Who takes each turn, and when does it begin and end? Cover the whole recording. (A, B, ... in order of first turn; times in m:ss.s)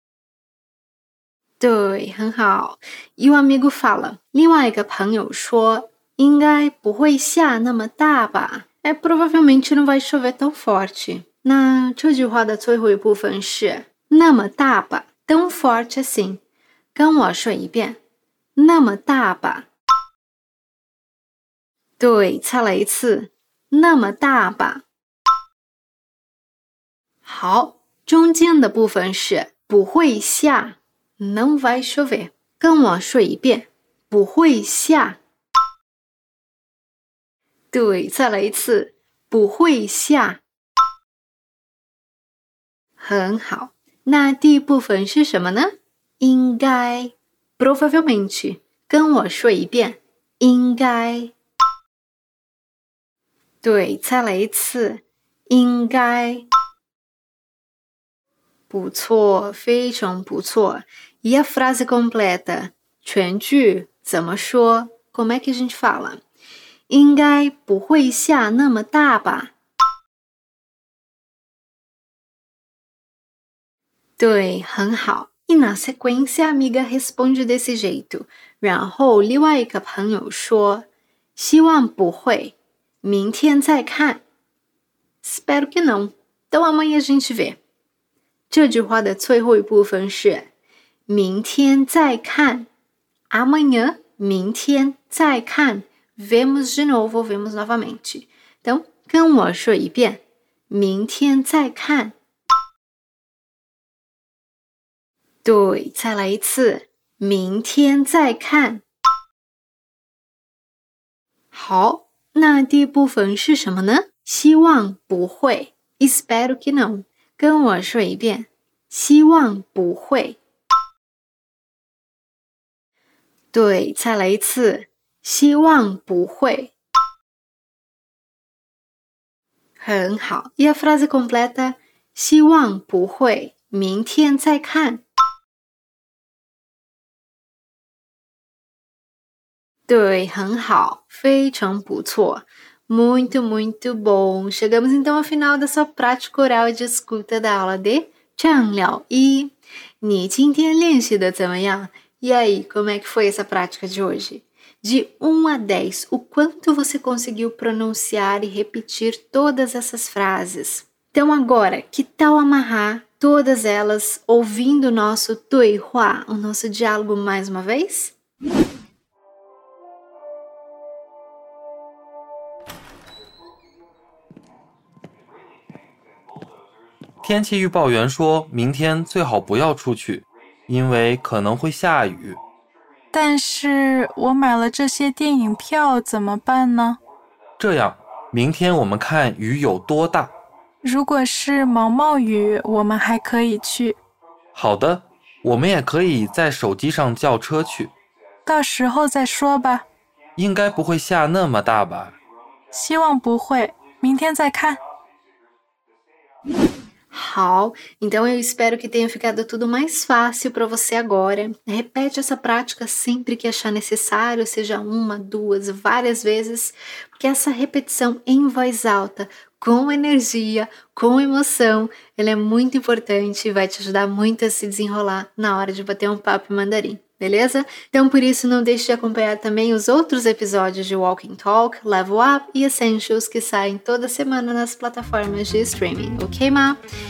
0:01.6-0:16.4 A
0:16.9-0:18.0 A
0:18.6-0:19.7 A
0:22.0-0:24.8 A
0:27.2-0:35.2 A
0:37.7-0:40.4 A
0:43.0-0:51.3 A
0:53.6-0:56.5 A
0:58.7-1:06.2 A
1:06.9-1:09.5 A
1:14.2-1:24.2 A
1:25.2-1:27.6 A
1:28.5-1:30.5 A
1:31.1-1:32.7 A
1:33.3-1:42.2 A
1:45.4-1:48.8 A
1:51.5-2:00.4 A
2:03.5-2:06.7 A
2:09.8-2:15.0 A
2:19.9-2:48.1 A
2:57.2-3:02.4 B
3:03.1-3:07.0 C
3:07.6-3:10.4 B
3:10.8-3:14.0 C
3:14.6-3:17.9 B
3:18.4-3:19.9 C
3:20.4-3:22.2 B
3:22.7-3:24.8 C
3:27.1-3:56.8 A